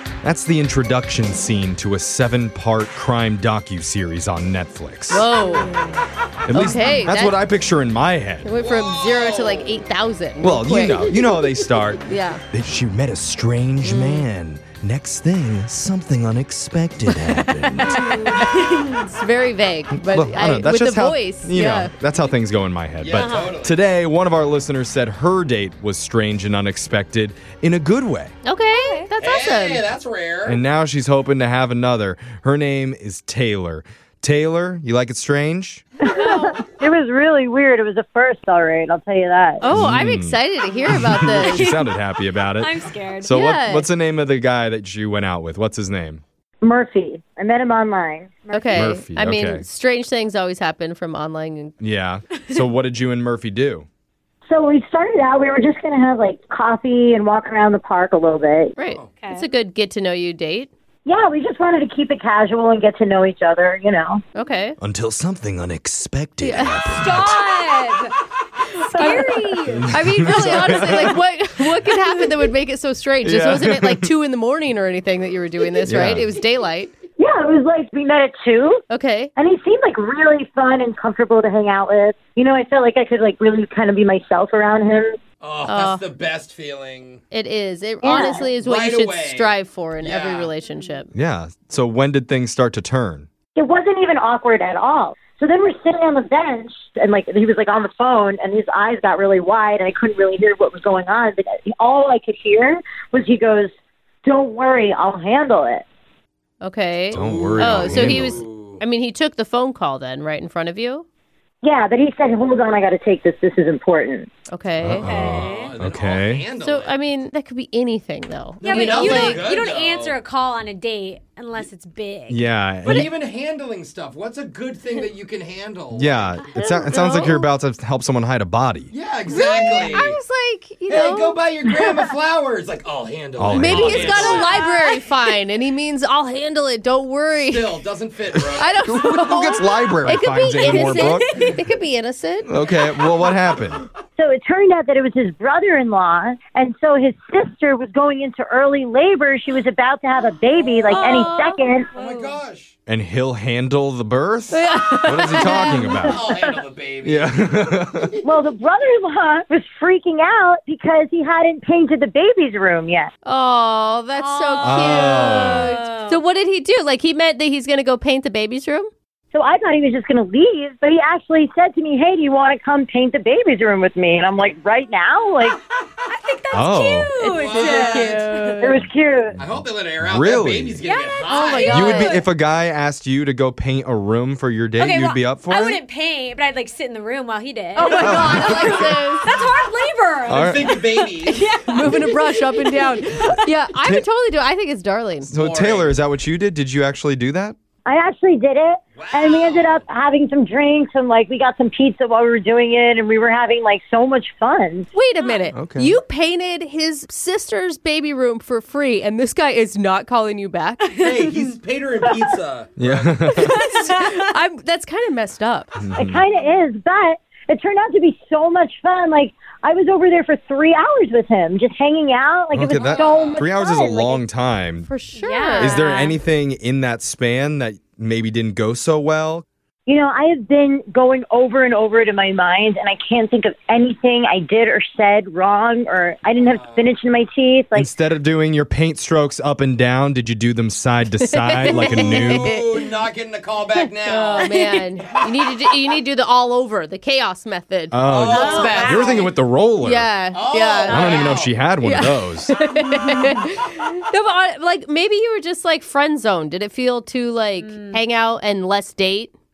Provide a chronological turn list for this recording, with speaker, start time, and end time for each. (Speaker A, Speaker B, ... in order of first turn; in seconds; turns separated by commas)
Speaker A: 0.2-5.3, Speaker B: 5.1-5.7, Speaker C: 5.4-6.0, Speaker A: 6.5-8.5, Speaker B: 6.5-7.4, Speaker B: 8.4-11.2, Speaker D: 8.6-9.8, Speaker A: 10.4-18.0, Speaker B: 12.1-12.4, Speaker B: 13.8-14.3, Speaker B: 17.1-18.3, Speaker C: 17.9-19.0, Speaker B: 19.0-21.9, Speaker A: 20.1-28.4, Speaker D: 23.0-23.9, Speaker C: 23.1-23.5, Speaker B: 28.4-29.9, Speaker C: 28.7-29.1, Speaker D: 29.2-30.6, Speaker A: 30.5-35.8, Speaker E: 36.0-39.7, Speaker B: 36.2-36.6, Speaker B: 39.6-41.8, Speaker A: 39.7-46.2, Speaker C: 41.4-43.4, Speaker B: 43.3-43.9, Speaker E: 46.6-48.4, Speaker C: 48.5-49.0, Speaker B: 48.5-51.8, Speaker A: 48.8-49.6, Speaker A: 51.8-53.9, Speaker E: 54.5-58.8, Speaker B: 58.8-60.7, Speaker D: 58.8-59.1, Speaker C: 59.2-59.5, Speaker E: 61.1-64.2, Speaker B: 64.4-64.8, Speaker A: 64.8-67.4, Speaker B: 66.4-66.9, Speaker C: 66.9-68.2, Speaker C: 68.8-71.0, Speaker B: 68.9-69.3, Speaker A: 69.7-71.2, Speaker B: 69.9-76.9, Speaker A: 73.2-74.1, Speaker A: 75.9-76.3, Speaker E: 77.2-78.8, Speaker B: 78.9-79.3, Speaker E: 79.4-85.2, Speaker D: 85.4-87.2, Speaker B: 85.7-86.0, Speaker B: 87.3-91.1, Speaker E: 88.0-88.5, Speaker C: 88.1-88.4, Speaker D: 88.2-90.5, Speaker A: 91.1-93.3, Speaker E: 93.6-103.7, Speaker E: 104.2-105.8, Speaker B: 106.6-111.1, Speaker D: 107.1-108.8, Speaker A: 107.1-108.4, Speaker E: 111.6-114.3, Speaker B: 114.5-115.2, Speaker A: 114.8-116.5, Speaker D: 114.9-117.0, Speaker C: 115.0-115.8, Speaker B: 116.6-119.5, Speaker D: 118.6-120.2, Speaker C: 118.6-122.5, Speaker A: 122.3-123.1, Speaker D: 122.8-126.4, Speaker A: 125.9-128.9, Speaker B: 126.5-127.5, Speaker D: 128.9-130.2, Speaker B: 129.3-131.4, Speaker D: 130.9-134.8, Speaker A: 133.4-134.4, Speaker B: 133.5-137.8, Speaker C: 134.4-135.0, Speaker D: 137.3-139.5, Speaker A: 138.3-141.3, Speaker B: 138.6-142.5, Speaker C: 140.7-141.5, Speaker A: 142.5-143.8, Speaker D: 142.6-143.9, Speaker E: 144.2-151.9, Speaker C: 150.9-151.3, Speaker B: 150.9-151.7, Speaker D: 151.9-152.7, Speaker C: 151.9-152.4, Speaker A: 152.9-156.2, Speaker B: 154.5-156.2, Speaker D: 155.3-158.3, Speaker A: 157.1-158.1, Speaker E: 158.2-163.1, Speaker B: 163.2-168.9, Speaker C: 164.2-166.2, Speaker A: 164.6-165.7, Speaker E: 169.3-175.6, Speaker C: 176.1-178.3, Speaker A: 176.5-177.1, Speaker D: 177.2-178.7, Speaker B: 177.2-178.8, Speaker E: 178.6-179.4, Speaker D: 179.4-182.0, Speaker A: 179.4-180.8, Speaker C: 180.8-182.2, Speaker B: 181.3-182.2, Speaker A: 181.7-185.8, Speaker C: 184.8-193.5, Speaker B: 187.8-189.2, Speaker D: 187.9-189.0, Speaker A: 188.0-188.8, Speaker A: 190.3-190.6, Speaker D: 190.3-191.5, Speaker B: 191.3-195.3, Speaker A: 193.8-194.1, Speaker D: 195.3-196.0, Speaker A: 195.3-197.6, Speaker E: 197.9-204.9, Speaker D: 198.9-199.8, Speaker B: 204.9-211.0, Speaker C: 205.2-205.6, Speaker A: 205.6-206.0, Speaker C: 210.8-211.1, Speaker D: 210.9-213.3, Speaker A: 212.8-213.6, Speaker C: 213.4-214.3, Speaker B: 213.4-215.8, Speaker A: 215.8-216.2, Speaker E: 215.9-224.2, Speaker A: 222.5-224.9, Speaker D: 222.7-223.5, Speaker B: 224.9-226.0, Speaker C: 225.2-226.2, Speaker A: 225.6-229.4, Speaker E: 229.9-237.9, Speaker D: 236.3-236.9, Speaker A: 237.8-242.5, Speaker B: 241.3-242.7, Speaker D: 241.6-244.5, Speaker B: 244.1-249.2, Speaker C: 244.4-244.9, Speaker A: 247.9-250.1, Speaker D: 248.0-249.4, Speaker C: 248.6-249.2, Speaker B: 249.8-251.1, Speaker D: 250.3-251.6, Speaker C: 250.8-251.4, Speaker A: 250.9-252.5, Speaker B: 251.8-259.3, Speaker C: 252.8-253.4, Speaker C: 257.6-258.0